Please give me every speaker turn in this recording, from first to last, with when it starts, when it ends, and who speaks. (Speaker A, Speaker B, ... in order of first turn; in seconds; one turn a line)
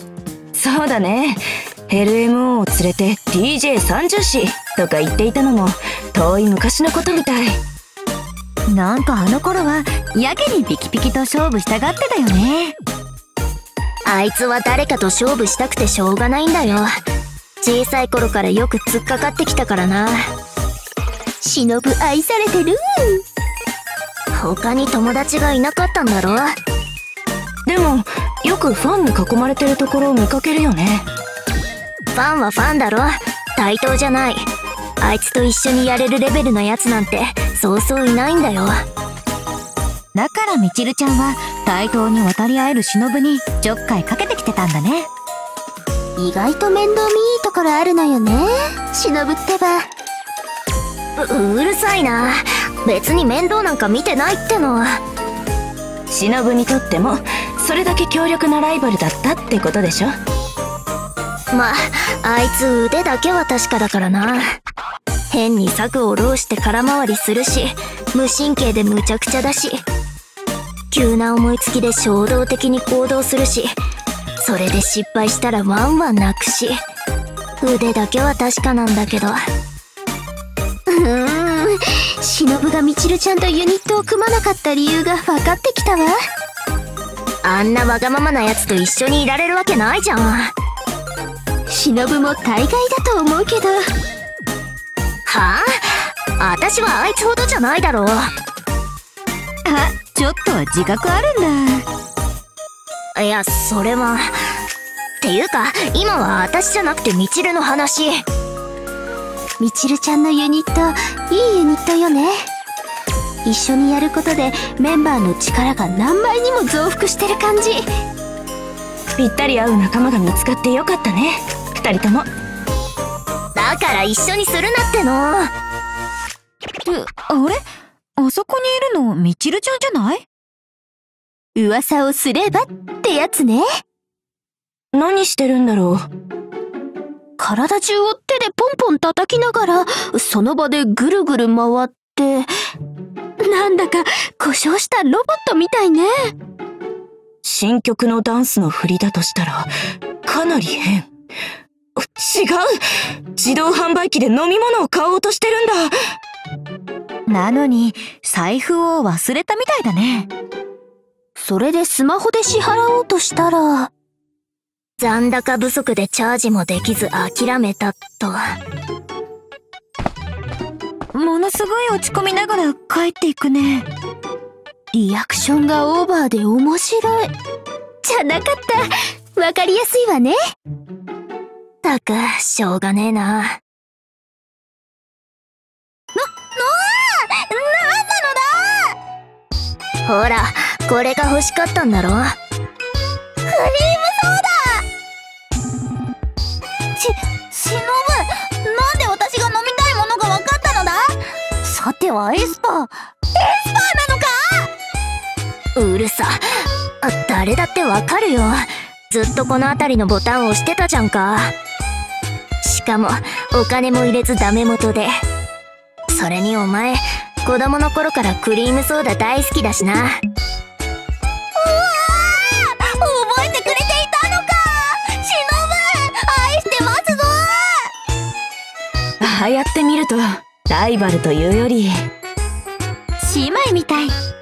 Speaker A: 0.6-7.6
Speaker B: 8.7-12.8
Speaker C: 14.1-16.9
Speaker C: 17.6-20.3
Speaker D: 21.4-23.2
Speaker C: 24.3-26.5
Speaker A: 27.7-31.1
Speaker C: 32.1-34.4
Speaker C: 35.0-38.8
Speaker B: 40.1-45.1
Speaker D: 46.2-49.9
Speaker C: 51.2-55.0
Speaker A: 56.1-60.1
Speaker C: 61.5-64.5
Speaker C: 65.3-69.8
Speaker C: 70.9-73.7
Speaker C: 74.4-76.8
Speaker C: 77.6-79.4
Speaker D: 80.9-86.2
Speaker C: 87.4-90.5
Speaker D: 91.7-93.8
Speaker C: 95.3-98.3
Speaker B: 99.6-101.9
Speaker C: 103.2-104.3
Speaker C: 105.2-108.2
Speaker D: 109.6-112.5
Speaker D: 113.5-117.8
Speaker A: 119.2-122.3
Speaker C: 123.5-125.5
Speaker B: 126.8-127.6
Speaker B: 128.2-130.2
Speaker D: 131.5-133.7
Speaker A: 134.9-136.0
Speaker D: 137.4-142.5
Speaker D: 143.4-146.3
Speaker A: 147.4-149.7
Speaker A: 150.2-151.1
Speaker A: 152.0-152.7
Speaker A: 153.3-155.9
Speaker B: 157.3-160.3
Speaker D: 161.3-163.9
Speaker C: 165.0-168.4
Speaker B: 171.1-173.9
Speaker D: 174.9-177.3
Speaker D: 178.0-180.4
Speaker C: 181.8-183.6
Speaker D: 186.1-188.9
Speaker C: 190.1-192.3
Speaker D: 193.5-194.8
Speaker D: 197.0-204.7
Speaker C: 205.8-211.5
Speaker C: 212.6-215.1
Speaker C: 216.1-220.2
Speaker D: 221.6-227.9
Speaker A: 229.2-232.1
Speaker B: 233.2-234.1
Speaker D: 233.7-234.1